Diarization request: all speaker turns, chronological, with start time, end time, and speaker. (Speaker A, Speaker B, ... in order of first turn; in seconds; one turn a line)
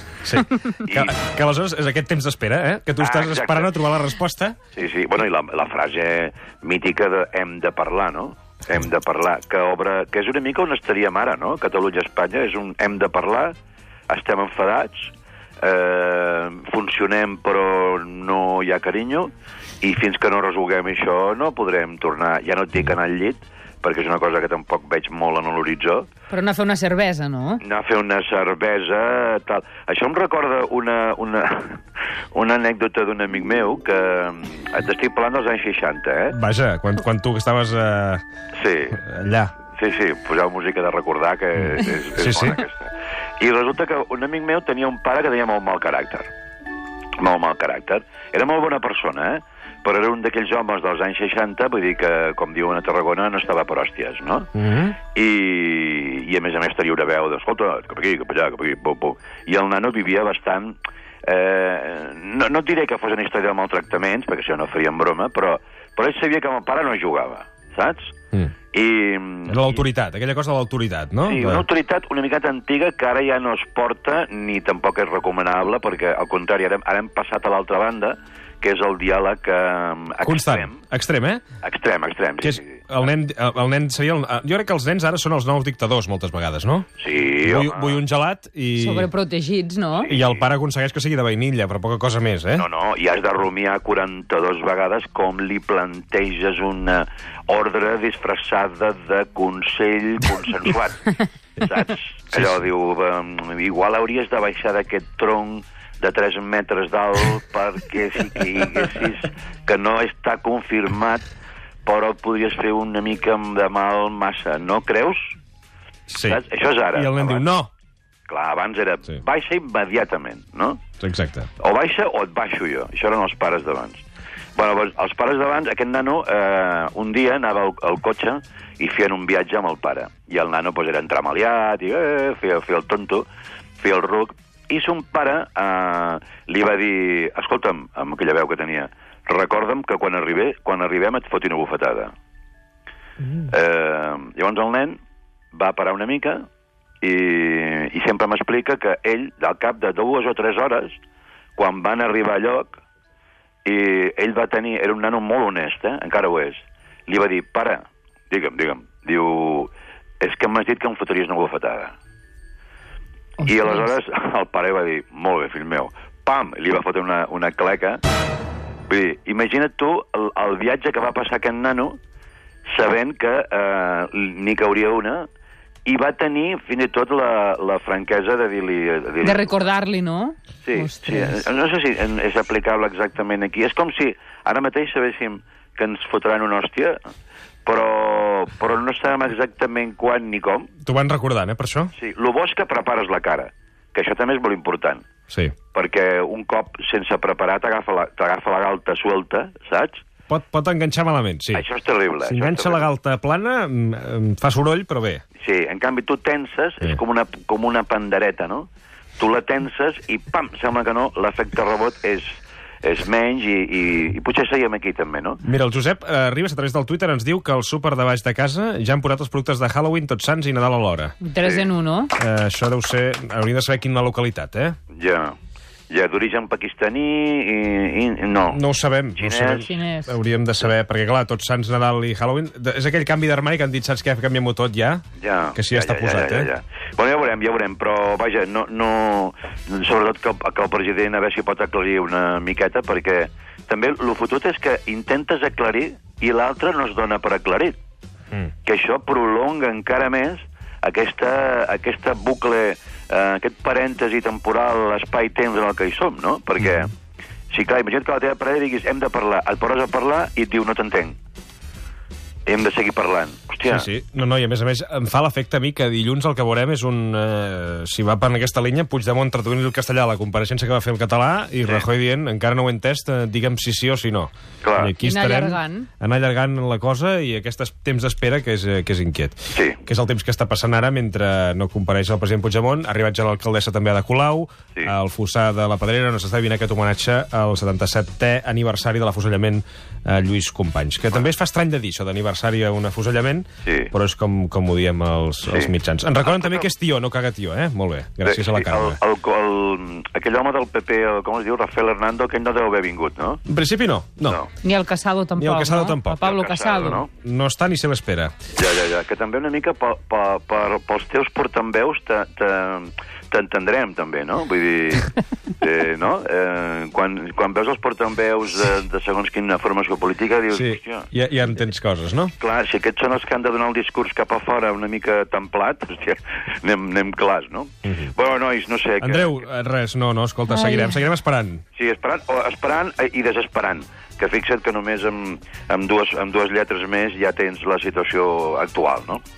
Speaker A: 0.2-4.6
Speaker B: 0.8-1.1
Speaker B: 3.0-3.8
Speaker B: 4.7-13.5
Speaker B: 14.1-26.1
Speaker C: 26.3-27.6
Speaker B: 27.6-31.8
Speaker B: 32.3-36.4
Speaker A: 36.3-38.2
Speaker B: 38.6-39.0
Speaker A: 39.0-39.5
Speaker B: 39.8-46.3
Speaker A: 42.2-42.6
Speaker B: 47.2-54.5
Speaker A: 54.5-55.0
Speaker B: 55.0-68.1
Speaker B: 68.7-69.8
Speaker A: 69.5-71.7
Speaker B: 71.2-80.8
Speaker A: 80.2-81.4
Speaker B: 81.6-82.8
Speaker A: 82.4-86.9
Speaker B: 87.0-88.0
Speaker A: 87.4-89.1
Speaker C: 88.8-90.1
Speaker B: 90.1-90.5
Speaker A: 90.1-92.7
Speaker B: 92.5-111.2
Speaker B: 111.8-115.3
Speaker A: 116.1-117.7
Speaker B: 116.2-117.5
Speaker B: 118.3-120.8
Speaker A: 121.0-121.5
Speaker B: 121.6-124.0
Speaker B: 124.6-133.3
Speaker B: 133.8-142.1
Speaker B: 143.4-145.0
Speaker B: 145.5-146.5
Speaker B: 147.0-151.0
Speaker B: 151.6-152.8
Speaker B: 153.7-161.9
Speaker C: 163.4-163.9
Speaker B: 163.4-168.0
Speaker B: 168.9-172.0
Speaker B: 172.7-175.3
Speaker B: 175.8-179.5
Speaker C: 179.2-181.4
Speaker B: 180.7-187.0
Speaker B: 187.7-190.7
Speaker A: 190.8-191.9
Speaker B: 191.9-195.1
Speaker A: 195.3-195.6
Speaker B: 195.7-200.0
Speaker A: 200.3-201.7
Speaker B: 201.5-202.9
Speaker A: 202.2-205.2
Speaker B: 205.4-215.4
Speaker A: 215.4-221.2
Speaker C: 221.2-222.1
Speaker B: 221.4-221.7
Speaker A: 222.2-224.8
Speaker B: 224.9-225.4
Speaker B: 225.9-228.6
Speaker A: 228.5-235.0
Speaker B: 229.2-229.7
Speaker C: 229.6-230.2
Speaker B: 235.2-247.8
Speaker A: 235.6-236.5
Speaker B: 248.7-256.9
Speaker B: 257.5-261.2
Speaker B: 262.5-263.9
Speaker A: 263.7-299.0
Speaker B: 274.6-274.9
Speaker C: 275.0-275.9
Speaker B: 279.5-279.8
Speaker B: 293.6-293.9
Speaker B: 295.5-296.7
Speaker B: 298.2-303.4
Speaker A: 303.5-304.4
Speaker B: 304.2-304.5
Speaker C: 304.6-307.0
Speaker A: 305.4-308.4
Speaker B: 306.2-307.1
Speaker B: 308.6-321.1
Speaker A: 320.5-322.3
Speaker B: 322.4-329.5
Speaker A: 327.9-328.1
Speaker A: 329.0-331.6
Speaker C: 330.5-330.9
Speaker B: 331.8-339.2